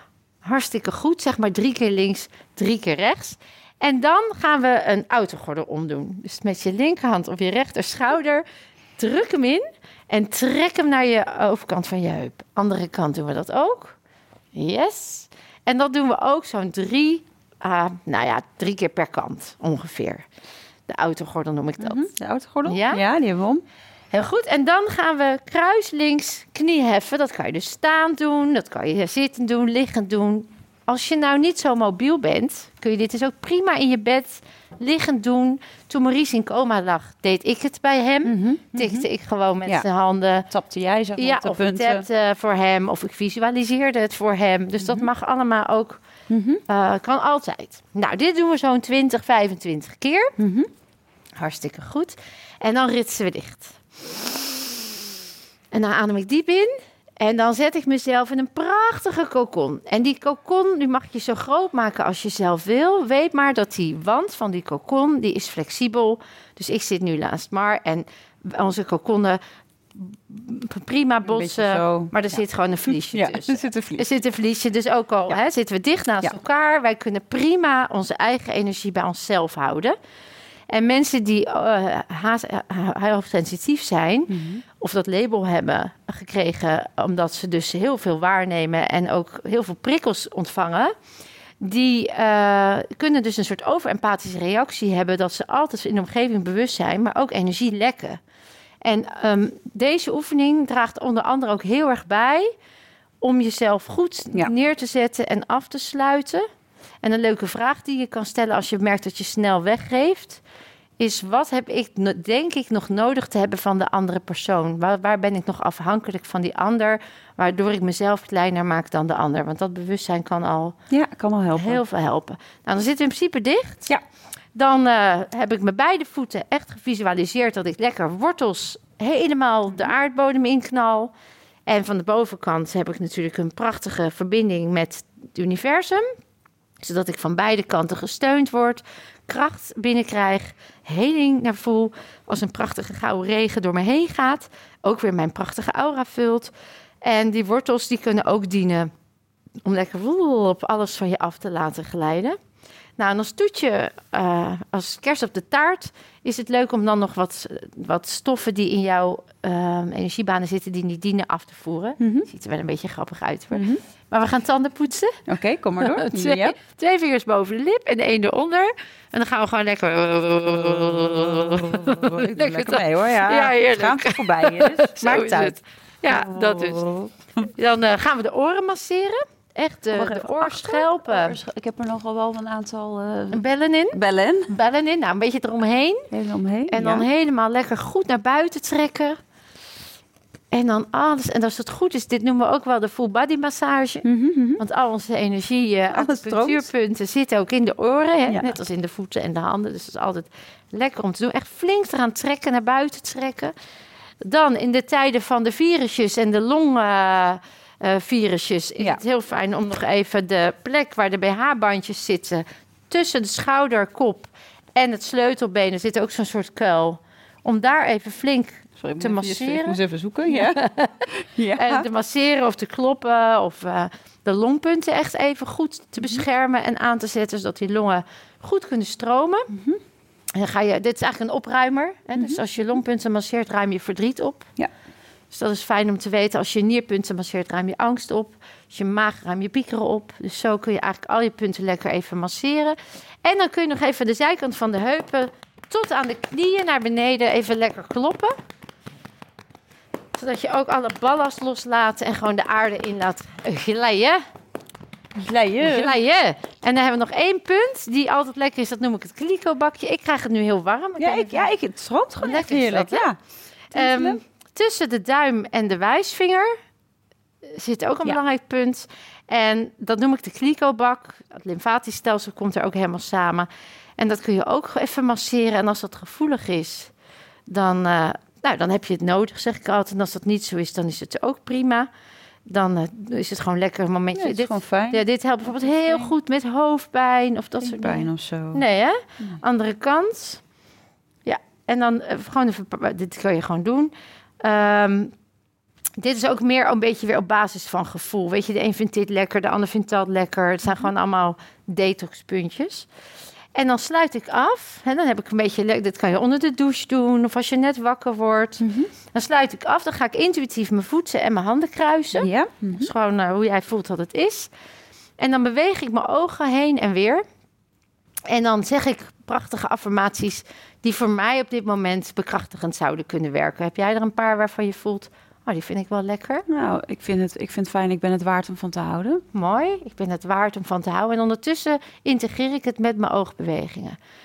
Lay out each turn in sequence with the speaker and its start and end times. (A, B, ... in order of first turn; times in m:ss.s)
0:00.4-0:08.4 A
0:09.0-0:14.0 A
0:14.5-0:20.3 A
0:20.9-0:22.1 A
0:21.8-0:23.6 B
0:22.7-0:23.0 A
0:24.1-0:40.5 A
0:38.2-0:39.1 B
0:40.5-0:42.1 B
0:41.2-0:46.0 A
0:44.8-0:45.1 B
0:46.3-0:46.6 B
0:46.7-0:50.4 A
0:50.4-0:50.7 B
0:51.4-0:54.8 A
0:55.7-1:09.4 A
1:09.9-1:20.0 A
1:11.3-1:14.1 B
1:20.7-1:30.9 A
1:24.3-1:24.6 B
1:31.6-1:38.2 A
1:38.8-1:42.5 A
1:43.2-1:46.5 A
1:47.0-1:50.4 A
1:51.0-2:00.8 A
2:00.9-2:01.8 B
2:01.6-2:03.9 A
2:04.6-2:11.1 A
2:11.7-2:16.1 A
2:16.8-2:26.5 A
2:27.0-2:28.9 A
2:29.6-2:32.4 A
2:33.0-2:45.2 A
2:42.0-2:42.3 B
2:43.5-2:43.8 B
2:45.3-2:46.6 B
2:45.8-2:56.9 A
2:50.8-2:57.5 B
2:57.5-3:01.4 A
2:59.9-3:04.5 B
3:03.3-3:06.1 A
3:06.1-3:07.1 B
3:06.7-3:09.2 A
3:10.5-3:14.1 A
3:14.0-3:14.6 B
3:14.6-3:23.5 A
3:15.9-3:16.7 B
3:18.3-3:18.5 B
3:24.2-3:49.5 A
3:38.8-3:41.9 B
3:49.5-3:49.8 B
3:50.4-3:54.5 A
3:55.3-4:08.3 A
4:10.2-4:14.2 A
4:15.2-4:16.0 B
4:15.6-4:21.5 A
4:21.0-4:23.2 B
4:22.2-4:23.1 A
4:23.7-4:26.5 A
4:23.7-4:24.2 B
4:27.4-4:36.9 A
4:37.5-4:41.9 A
4:42.5-4:50.4 A
4:44.1-4:46.1 B
4:47.6-4:48.6 B
4:51.2-4:55.1 A
4:56.0-5:02.9 A
5:03.5-5:14.5 A
5:08.6-5:08.9 B
5:12.2-5:12.9 B
5:15.2-5:17.2 A
5:18.3-5:26.4 A
5:26.5-5:29.2 B
5:29.3-5:34.0 A